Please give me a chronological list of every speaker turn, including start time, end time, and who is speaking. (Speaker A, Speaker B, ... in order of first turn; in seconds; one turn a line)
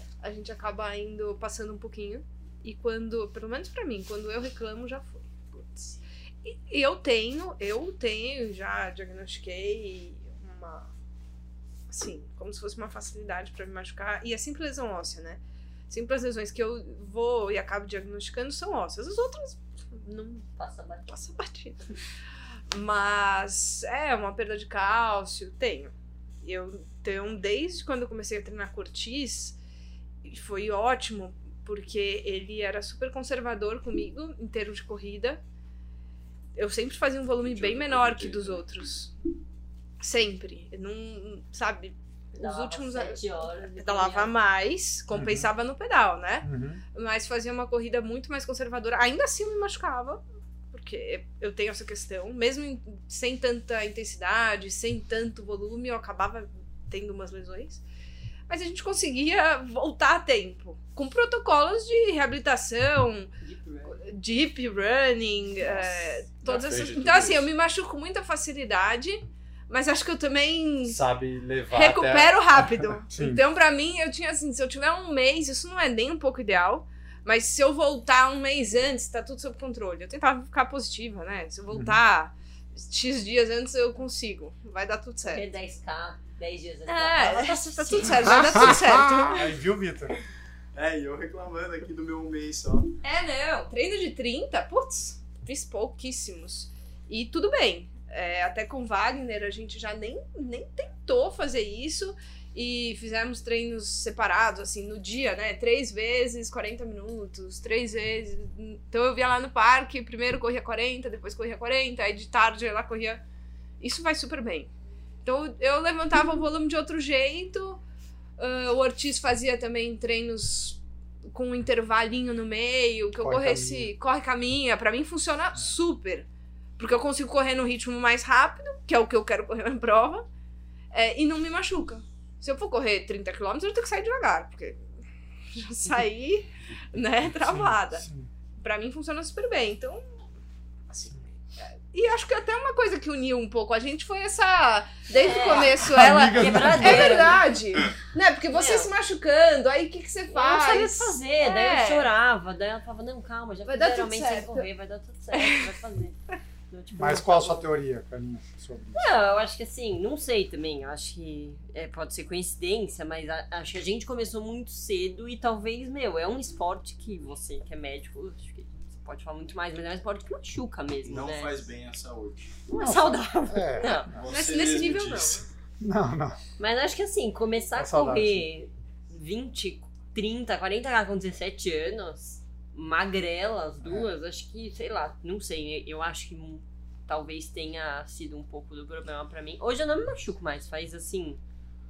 Speaker A: 0.2-10.9
Speaker A: 11.9-20.4
Speaker B: 20.4-21.1
Speaker A: 21.1-22.0
Speaker A: 22.7-25.9
Speaker A: 26.4-29.6
Speaker A: 30.2-35.4
Speaker A: 36.5-39.1
Speaker C: 37.4-38.6
Speaker A: 40.0-50.2
Speaker B: 42.3-44.3
Speaker D: 45.1-45.5
Speaker D: 46.4-46.8
Speaker A: 50.7-57.8
Speaker A: 58.5-63.3
Speaker B: 63.4-64.0
Speaker A: 63.9-71.0
Speaker C: 66.4-67.5
Speaker C: 70.8-72.4
Speaker A: 71.7-85.4
Speaker D: 73.1-73.4
Speaker D: 81.7-82.0
Speaker B: 85.2-88.5
Speaker A: 86.9-89.5
Speaker C: 88.5-89.0
Speaker D: 88.7-90.1
Speaker C: 90.7-92.9
Speaker A: 93.0-113.2
Speaker A: 113.8-114.7
Speaker A: 115.2-117.8
Speaker A: 118.4-120.8
Speaker A: 121.3-126.3
Speaker D: 123.2-123.9
Speaker A: 126.8-130.2
Speaker A: 130.9-134.8
Speaker A: 135.5-138.1
Speaker D: 137.4-138.3
Speaker A: 138.6-140.0
Speaker A: 140.9-152.1
Speaker B: 145.1-147.4
Speaker D: 145.8-147.4
Speaker B: 148.5-148.9
Speaker B: 150.3-156.2
Speaker A: 153.7-154.7
Speaker A: 155.3-155.7
Speaker B: 156.7-157.7
Speaker D: 157.0-159.1
Speaker B: 158.9-171.7
Speaker C: 171.0-172.5
Speaker B: 172.7-174.1
Speaker D: 172.8-174.3
Speaker C: 174.1-175.4
Speaker A: 174.3-175.4
Speaker D: 175.8-176.4
Speaker B: 176.6-191.4
Speaker D: 177.8-178.4
Speaker D: 183.8-184.1